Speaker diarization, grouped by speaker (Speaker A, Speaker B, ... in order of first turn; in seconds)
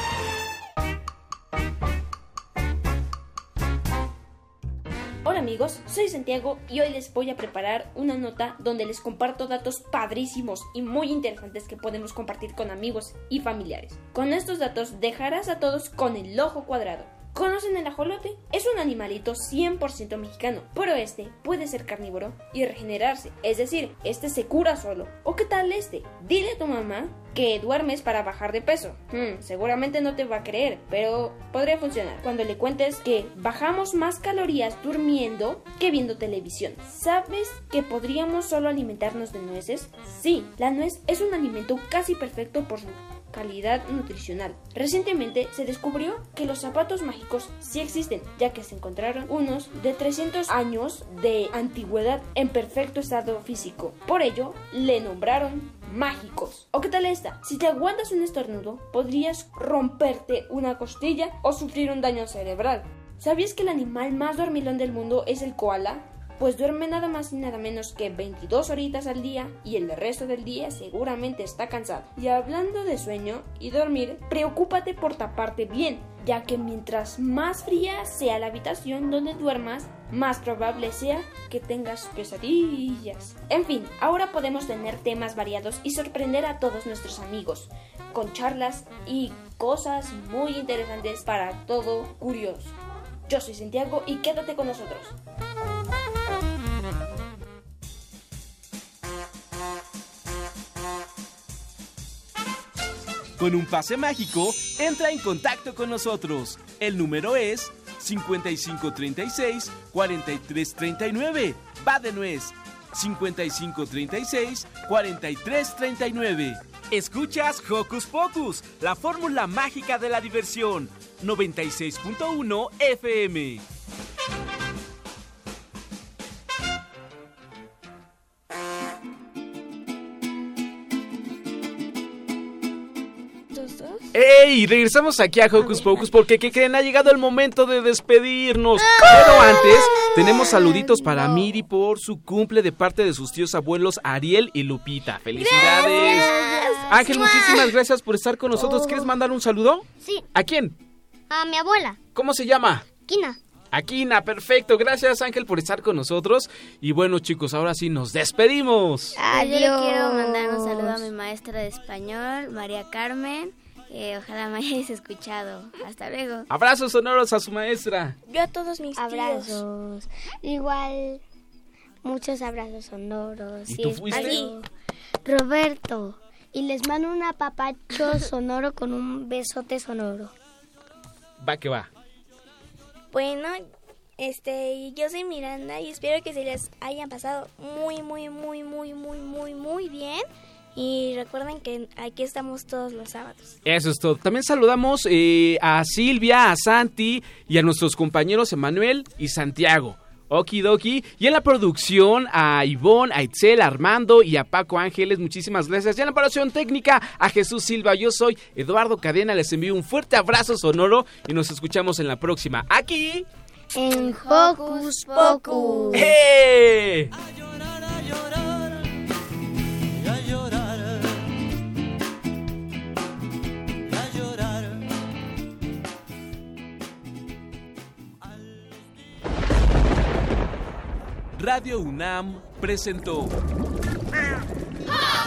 Speaker A: 5.2-92.8, 93.3-95.2
Speaker B: 103.4-123.6, 134.1-146.3, 146.9-150.7, 152.1-152.9, 153.7-159.2, 166.5-168.2, 173.7-174.4, 181.4-181.9, 193.6-213.3, 215.9-217.1, 231.4-233.3
Speaker C: 133.5-134.0, 168.3-169.6, 174.1-174.6, 183.1-183.6, 184.2-193.6
Speaker D: 145.7-147.3, 151.5-151.9, 159.2-161.1, 168.9-171.2, 172.0-174.7, 175.2-180.3, 213.7-216.1
Speaker E: 159.2-166.5, 213.8-216.1